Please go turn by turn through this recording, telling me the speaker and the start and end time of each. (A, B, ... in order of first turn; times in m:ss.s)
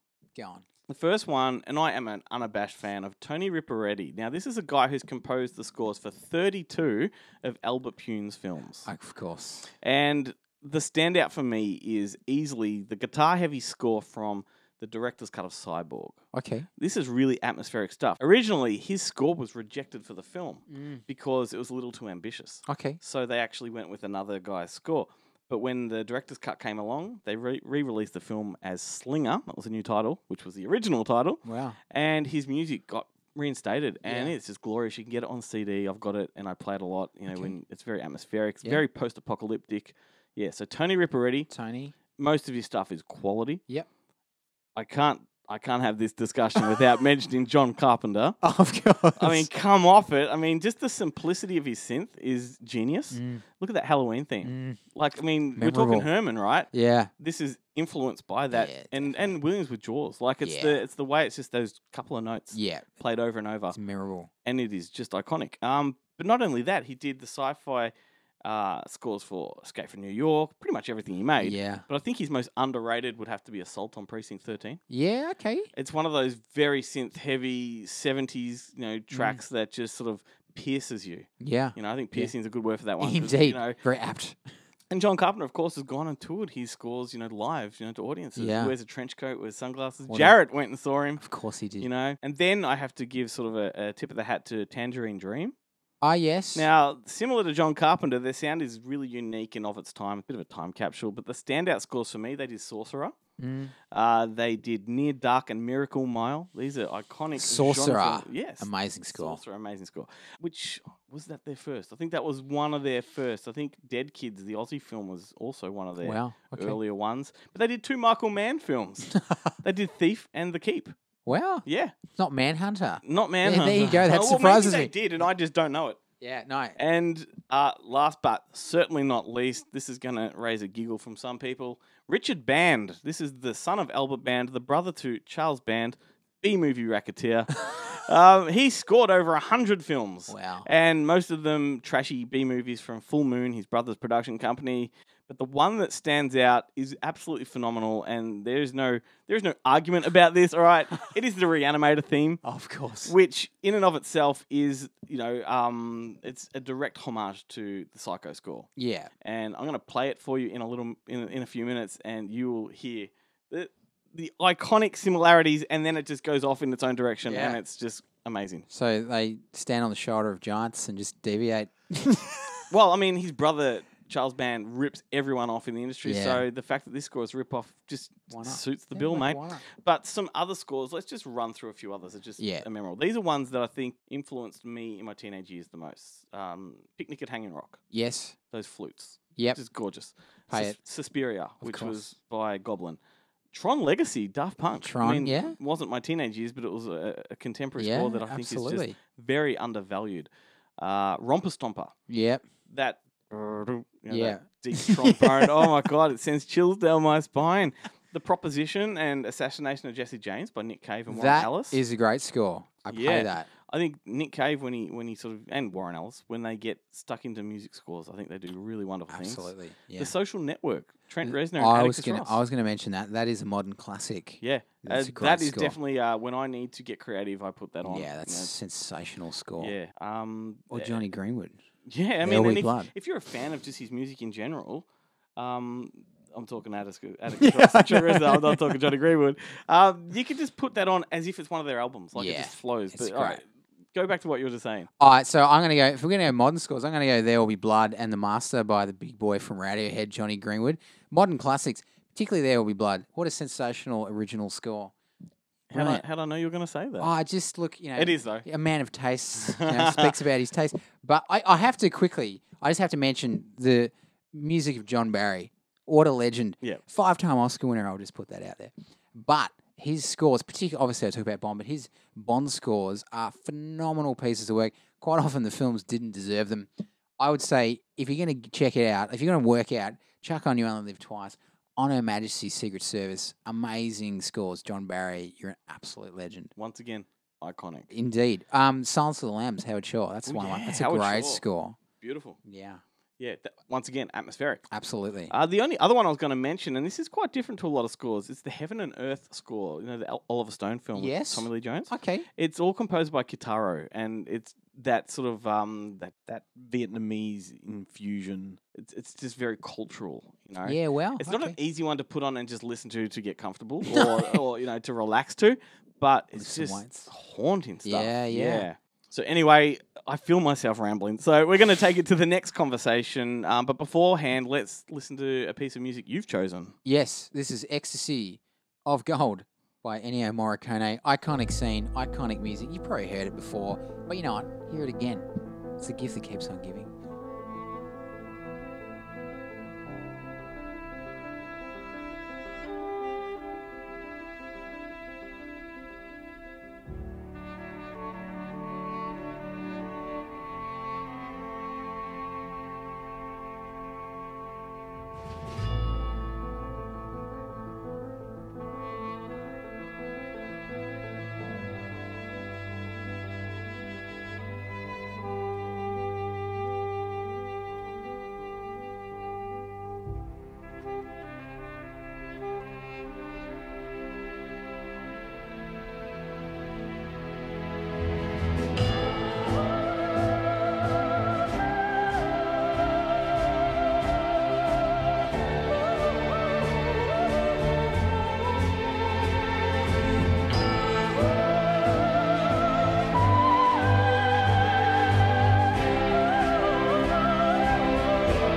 0:00.4-0:00.6 A
0:00.9-0:08.9 B
0:08.8-0:09.7 A
0:09.8-0:16.2 B
0:16.3-0:16.7 A
0:16.8-0:41.5 B
0:20.7-0:21.0 A
0:22.7-0:23.0 A
0:31.4-0:31.8 A
0:34.0-0:34.3 A
0:41.5-0:41.9 A
0:42.2-0:43.6 B
0:44.8-0:48.4 B
0:48.4-0:49.5 A
0:49.2-1:03.8 B
0:53.1-0:53.4 A
0:54.4-0:54.8 A
0:55.6-0:56.1 A
0:56.7-0:57.1 A
0:58.5-0:59.4 A
1:00.4-1:00.8 A
1:02.5-1:02.9 A
1:03.7-1:04.3 A
1:04.4-1:07.9 B
1:08.4-1:14.8 B
1:11.4-1:11.8 A
1:14.9-1:15.7 A
1:15.8-1:23.8 B
1:19.1-1:19.4 A
1:21.4-1:22.3 A
1:23.0-1:24.4 A
1:24.9-1:31.2 B
1:28.4-1:28.7 A
1:30.1-1:30.3 A
1:31.2-1:31.9 A
1:31.8-1:35.5 B
1:36.0-1:36.7 A
1:36.5-1:43.1 B
1:43.4-1:43.7 A
1:43.9-1:59.1 B
1:47.4-1:49.4 A
1:56.0-1:56.8 A
1:59.1-1:59.5 A
1:59.6-2:00.9 B
2:01.3-2:04.9 A
2:01.6-2:01.9 B
2:03.0-2:06.0 B
2:06.2-2:06.8 A
2:06.8-2:32.4 B
2:20.3-2:20.7 A
2:32.4-2:33.1 A
2:33.0-2:38.7 B
2:38.8-2:39.1 A
2:39.2-2:48.6 B
2:47.2-2:47.6 A
2:48.7-2:52.5 A
2:52.7-3:07.8 B
2:56.0-2:56.4 A
2:58.3-2:59.6 A
3:02.4-3:02.6 A
3:07.9-3:08.3 A
3:08.5-3:13.0 B
3:10.5-3:10.8 A
3:11.6-3:12.0 A
3:13.5-3:21.9 B
3:14.8-3:15.6 A
3:17.8-3:19.0 A
3:22.1-3:22.4 A
3:22.7-3:31.8 B
3:24.1-3:25.7 A
3:31.1-3:33.5 A
3:32.9-3:42.4 B
3:39.1-3:40.1 A
3:41.2-3:45.8 A
3:44.4-3:48.5 B
3:47.8-3:49.7 A
3:49.6-3:51.0 B
3:50.7-3:51.6 A
3:51.9-3:54.8 B
3:52.2-3:52.9 A
3:55.4-4:04.9 B
3:57.4-3:58.8 A
4:02.2-4:03.4 A
4:05.0-4:14.9 A
4:15.7-4:17.1 B
4:15.7-4:16.0 A
4:17.0-4:46.5 A
4:18.0-4:18.4 B
4:19.4-4:20.2 B
4:46.6-4:47.9 B
4:47.9-4:51.8 A
4:50.3-4:51.4 B
4:52.0-4:52.4 B
4:52.4-4:52.8 A
4:53.2-4:54.6 B
4:54.7-4:55.3 A
4:55.3-5:26.7 B
5:00.9-5:02.2 A
5:10.6-5:11.6 A
5:13.9-5:14.4 A
5:16.4-5:17.1 A
5:17.8-5:18.6 A
5:26.8-5:35.2 A
5:35.8-5:36.9 A